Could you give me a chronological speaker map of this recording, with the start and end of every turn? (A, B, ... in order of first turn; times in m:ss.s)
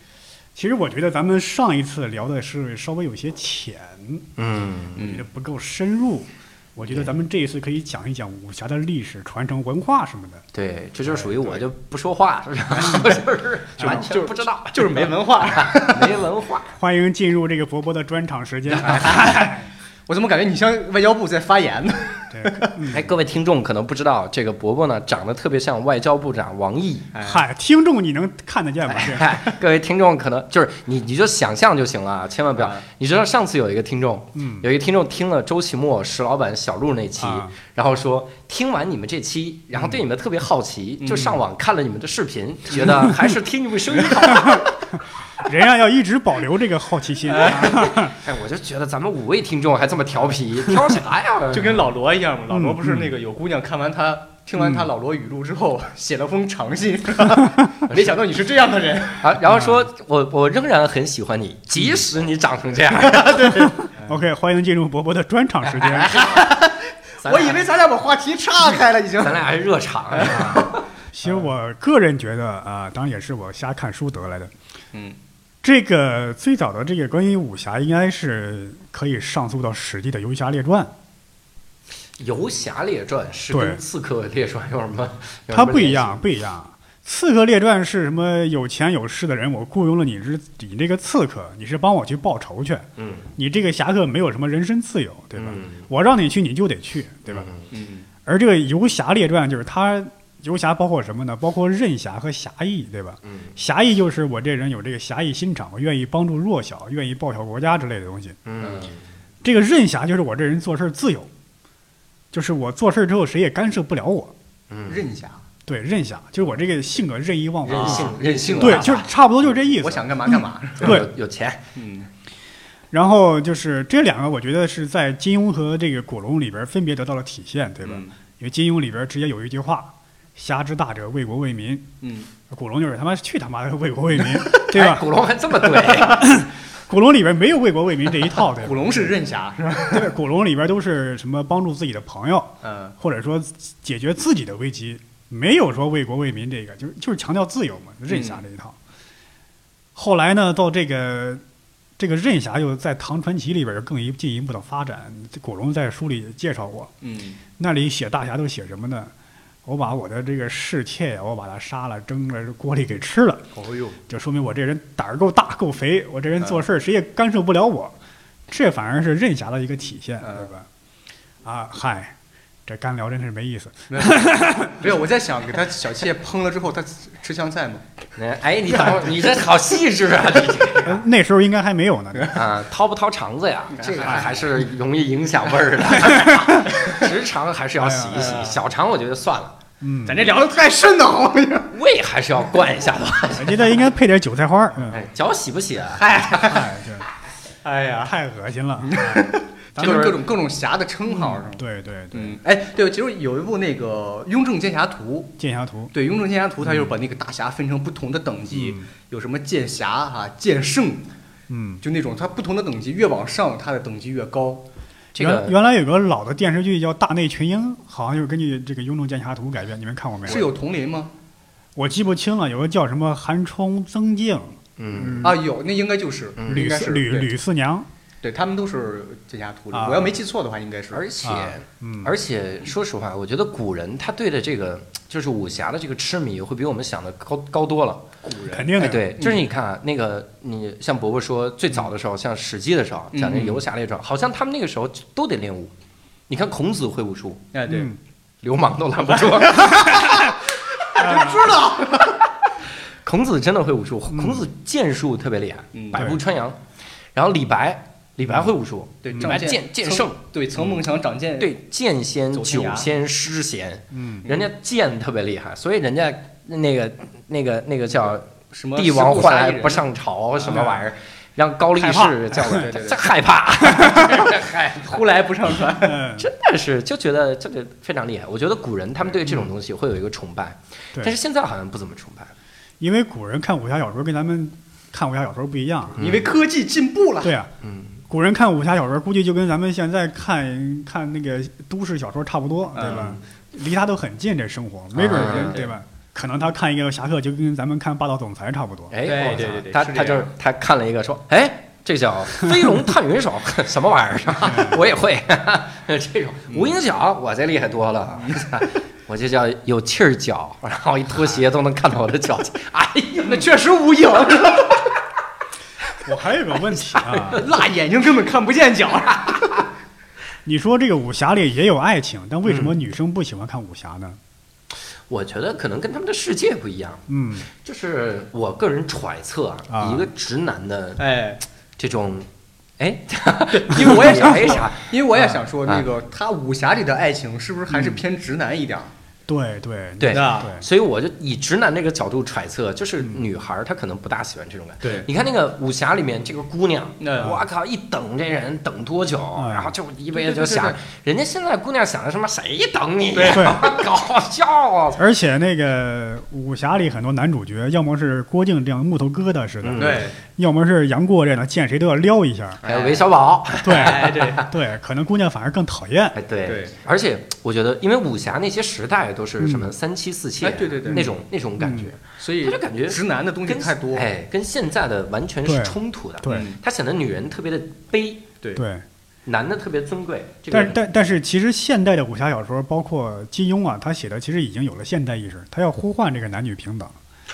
0:00.6-0:04.3 A
0:04.4-0:05.0 B
0:05.0-0:05.2 C
0:05.0-0:10.4 A
0:10.5-0:16.7 B
0:13.8-0:14.1 A
0:13.8-0:16.2 C
0:16.8-0:19.7 A
0:18.7-0:19.1 B
0:18.8-0:19.5 C
0:20.1-0:22.8 C
0:22.3-0:23.1 A
0:22.9-0:27.1 B
0:27.1-0:27.4 C
0:27.2-0:29.3 A
0:28.9-0:45.0 B
0:32.6-0:32.8 C
0:34.4-0:34.7 A
0:37.2-0:37.5 A
0:41.0-0:41.4 C
0:42.8-0:43.2 A
0:44.3-0:44.6 A
0:45.4-0:48.1 A
0:47.3-0:47.7 C
0:47.4-0:51.8 B
0:51.5-0:59.3 C
0:52.5-0:53.1 A
0:54.6-0:54.9 A
0:59.2-1:03.4 B
0:59.5-0:59.9 A
1:02.9-1:04.0 C
1:03.6-1:06.2 A
1:05.7-1:06.4 B
1:06.0-1:09.4 C
1:07.2-1:07.7 B
1:09.2-1:10.7 B
1:10.1-1:11.4 C
1:10.4-1:14.5 A
1:15.6-1:20.9 A
1:22.2-1:26.2 B
1:23.5-1:23.8 A
1:25.5-1:37.5 A
1:33.0-1:33.3 B
1:35.4-1:35.9 B
1:37.3-1:37.6 B
1:37.7-1:38.1 C
1:38.2-1:48.4 A
1:43.2-1:43.5 B
1:48.5-1:49.0 B
1:49.4-1:51.3 A
1:52.3-1:54.3 A
1:54.7-1:55.0 B
1:54.8-1:55.4 C
1:55.7-2:01.1 A
1:57.6-1:59.0 B
1:57.7-2:01.0 C
2:00.8-2:01.6 B
2:01.8-2:02.1 C
2:02.9-2:11.9 A
2:07.8-2:08.1 C
2:12.0-2:12.3 C
2:12.5-2:15.1 A
2:14.5-2:16.3 B
2:15.8-2:19.2 A
2:18.5-2:20.1 C
2:19.9-2:28.8 A
2:22.6-2:23.0 C
2:28.1-2:28.4 C
2:30.0-2:31.4 A
2:32.0-2:36.9 A
2:37.0-2:37.4 C
2:37.6-2:39.1 A
2:39.6-2:43.5 A
2:43.5-2:44.0 C
2:44.1-2:48.0 A
2:48.5-2:50.7 A
2:50.2-2:50.5 C
2:51.4-2:52.2 A
2:52.7-2:54.8 A
2:53.9-2:57.9 C
2:58.2-3:01.0 B
3:00.8-3:02.4 A
3:02.3-3:09.6 B
3:03.7-3:04.4 C
3:06.0-3:06.7 A
3:06.8-3:07.0 C
3:07.8-3:08.4 A
3:08.1-3:08.6 C
3:09.8-3:10.3 A
3:10.1-3:11.7 C
3:11.7-3:13.9 B
3:13.4-3:15.0 A
3:14.9-3:16.0 B
3:16.0-3:16.7 C
3:16.4-3:17.1 A
3:17.6-3:18.1 C
3:18.0-3:20.2 A
3:18.8-3:21.6 C
3:19.8-3:20.2 B
3:21.1-3:22.4 A
3:22.1-3:25.4 C
3:25.4-3:25.9 A
3:25.9-3:31.1 C
3:26.6-3:26.9 A
3:28.5-3:28.9 A
3:31.5-3:31.8 A
3:31.8-3:34.6 C
3:35.2-3:35.6 B
3:35.2-3:40.5 A
3:40.3-3:41.1 C
3:41.8-3:45.4 A
3:44.8-3:45.4 B
3:45.2-3:47.3 C
3:46.4-3:46.7 B
3:46.5-3:47.9 A
3:48.2-3:51.0 C
3:49.7-3:50.2 A
3:50.9-3:58.1 B
3:51.2-3:52.2 A
3:58.2-3:59.4 C
3:58.5-3:59.1 A
3:58.8-4:05.7 B
4:03.1-4:03.6 C
4:06.3-4:07.5 B
4:07.5-4:07.9 C
4:07.7-4:08.0 A
4:08.4-4:10.3 B
4:09.1-4:12.2 C
4:11.0-4:11.5 A
4:13.0-4:16.6 B
4:14.1-4:14.5 A
4:15.7-4:16.1 C
4:15.9-4:16.2 A
4:17.2-4:20.2 B
4:19.0-4:21.5 C
4:21.4-4:35.0 B
4:22.3-4:22.9 C
4:23.9-4:24.2 A
4:28.0-4:29.9 C
4:30.4-4:30.7 C
4:30.5-4:30.8 A
4:31.8-4:32.6 A
4:32.5-4:33.0 C
4:33.6-4:34.2 A
4:34.8-4:36.0 C
4:35.8-4:36.3 A
4:36.2-4:42.3 B
4:42.8-4:46.0 A
4:46.0-4:46.3 B
4:46.0-4:47.4 C
4:47.2-4:47.5 A
4:47.6-4:48.0 B
4:48.1-4:58.9 A
4:52.7-4:53.2 C
4:52.8-4:53.2 B
4:54.9-4:55.7 B
4:58.9-5:13.5 B
4:59.0-5:00.3 C
5:04.4-5:04.8 A
5:06.5-5:06.8 C
5:08.1-5:08.6 C
5:13.2-5:14.8 C
5:16.0-5:17.4 A
5:17.0-5:17.4 B
5:17.3-5:19.5 C
5:19.3-5:19.6 B
5:20.5-5:24.2 A
5:22.5-5:22.7 B
5:25.1-5:31.0 B
5:27.1-5:27.5 A
5:29.7-5:30.1 A
5:31.0-5:31.4 C
5:31.8-5:32.3 B
5:32.8-5:34.9 B
5:33.5-5:38.9 C
5:39.3-5:40.7 A
5:40.0-5:55.0 B
5:40.1-5:40.5 C
5:44.8-5:45.1 C
5:47.0-5:47.4 C
5:49.4-5:49.8 A
5:50.1-5:50.8 C
5:53.1-5:53.8 C
5:53.3-5:53.6 A
5:55.0-6:02.6 A
5:59.6-6:00.0 B
5:59.8-6:00.2 C
6:02.6-6:03.1 C
6:02.6-6:04.5 B
6:03.6-6:06.2 A
6:03.7-6:04.5 C
6:06.2-6:18.2 B
6:06.4-6:06.8 C
6:09.4-6:09.7 A
6:10.4-6:11.1 C
6:10.9-6:11.9 A
6:12.2-6:14.1 C
6:15.4-6:16.5 A
6:16.3-6:16.6 C
6:18.6-6:18.8 A
6:19.3-6:20.9 B
6:20.5-6:27.0 A